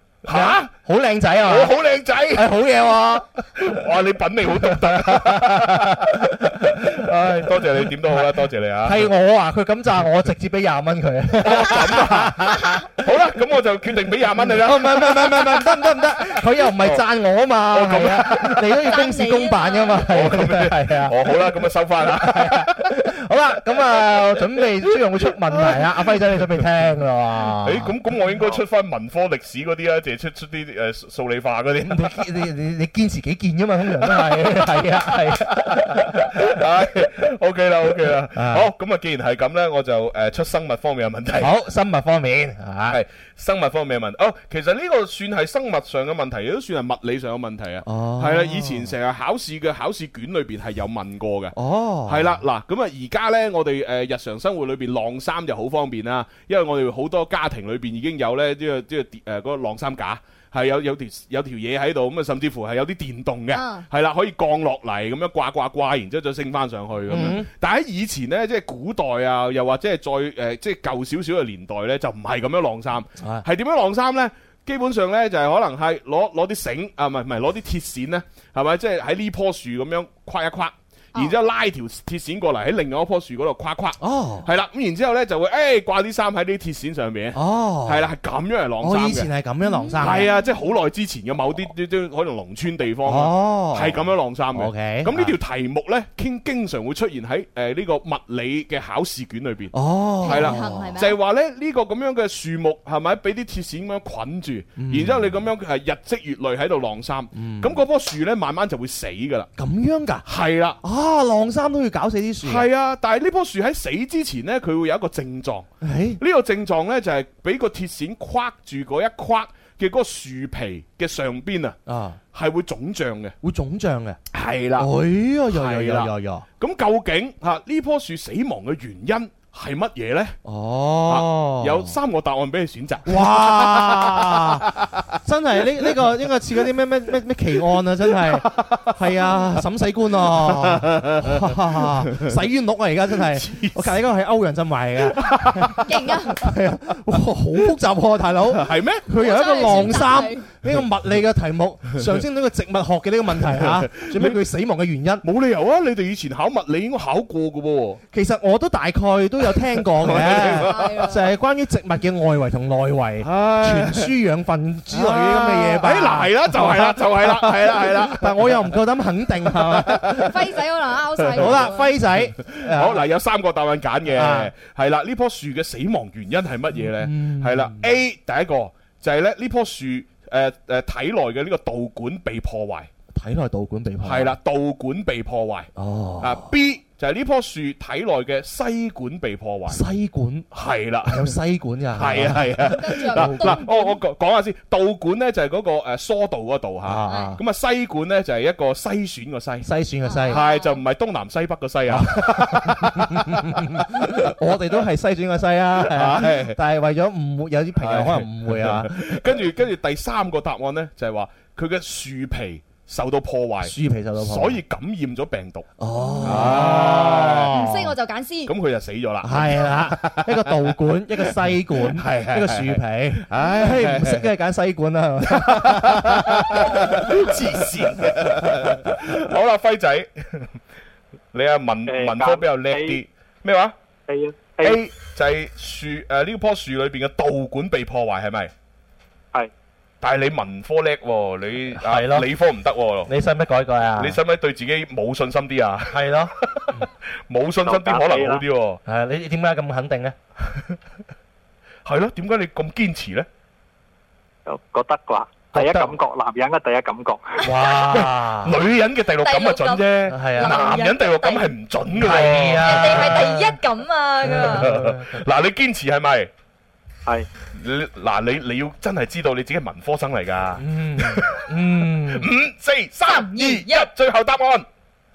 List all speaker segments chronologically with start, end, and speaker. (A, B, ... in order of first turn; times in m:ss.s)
0:00.2-0:00.7 A
0:00.3-0:01.8 B
0:01.4-0:02.5 A
0:02.3-0:03.3 B
0:03.6-0:09.1 A
0:04.6-0:12.9 B
0:11.4-0:16.0 A
0:14.4-0:27.9 B
0:16.6-0:17.0 A
0:17.7-0:18.9 A
0:18.9-0:20.1 C
0:20.1-0:22.9 A
0:24.6-0:26.4 A
0:27.6-0:32.3 A
0:31.9-0:36.6 B
0:34.0-0:41.5 A
0:38.3-0:38.7 B
0:41.4-0:43.0 B
0:42.9-1:29.3 A
0:47.8-0:48.9 B
0:51.6-0:52.4 B
1:03.5-1:03.9 C
1:07.1-1:07.5 B
1:13.2-1:13.4 B
1:24.0-1:24.5 B
1:27.4-1:28.1 B
1:28.8-1:30.3 B
1:29.6-1:30.6 C
1:30.0-1:49.5 A
1:33.1-1:34.0 B
1:34.5-1:35.3 B
1:39.7-1:40.9 B
1:40.2-1:41.2 C
1:44.8-1:45.4 B
1:47.3-1:47.8 B
1:49.6-1:50.2 B
1:50.2-1:50.8 A
1:50.8-1:52.7 B
1:52.4-1:55.7 A
1:55.8-1:56.2 B
1:56.2-2:01.8 A
2:01.9-2:02.2 B
2:02.3-2:03.4 A
2:03.4-2:04.2 B
2:04.3-2:04.9 A
2:04.8-2:06.5 B
2:05.5-2:10.4 A
2:10.4-2:12.0 B
2:11.1-2:15.2 A
2:13.1-2:14.7 B
2:15.2-2:35.2 B
2:20.3-2:22.3 A
2:23.3-2:24.0 A
2:25.2-2:25.8 A
2:25.9-2:26.5 C
2:28.5-2:29.1 A
2:29.1-2:30.5 C
2:29.6-2:30.0 A
2:33.5-2:34.4 A
2:35.2-2:38.0 A
2:38.1-2:50.3 B
2:39.8-2:40.9 A
2:40.5-2:41.3 C
2:43.2-2:44.1 A
2:44.9-2:48.7 A
2:49.6-2:50.2 A
2:50.1-2:52.0 C
2:51.2-2:51.7 A
2:51.3-2:53.0 B
2:52.4-3:02.9 A
2:54.1-2:54.5 B
2:56.8-2:57.9 B
3:03.1-3:04.4 B
3:04.0-3:09.8 A
3:05.8-3:06.5 B
3:09.7-3:10.5 B
3:10.5-3:11.4 A
3:11.0-3:13.6 B
3:11.9-3:19.7 A
3:12.7-3:14.0 C
3:16.8-3:17.4 B
3:17.1-3:17.4 C
3:19.6-3:20.4 B
3:20.0-3:20.8 C
3:20.3-3:24.3 A
3:21.9-3:29.3 B
3:25.8-3:26.6 A
3:27.8-3:35.7 A
3:33.6-3:34.6 B
3:35.8-3:38.0 B
3:36.0-3:36.6 C
3:36.2-3:37.5 A
3:37.5-3:38.5 C
3:38.5-3:40.5 A
3:39.2-3:47.1 B
3:41.8-3:44.2 A
3:45.3-3:50.5 A
3:48.0-3:48.9 B
3:51.3-3:53.8 A
3:51.9-3:53.0 D
3:54.1-3:54.8 D
3:54.6-3:58.5 A
4:00.0-4:03.1 A
4:01.7-4:02.3 B
4:03.1-4:04.2 B
4:04.0-4:08.8 A
4:05.9-4:06.9 B
4:07.6-4:08.4 D
4:08.9-4:10.1 B
4:10.4-4:10.8 A
4:11.9-4:13.3 A
4:14.5-4:17.5 D
4:15.5-4:15.9 A
4:17.4-4:18.6 B
4:17.9-4:23.2 A
4:19.2-4:21.5 C
4:20.1-4:20.6 B
4:21.9-4:23.6 B
4:22.6-4:24.7 C
4:24.2-4:25.1 B
4:24.3-4:26.3 A
4:27.5-4:34.7 A
4:30.6-4:32.3 B
4:33.1-4:33.9 C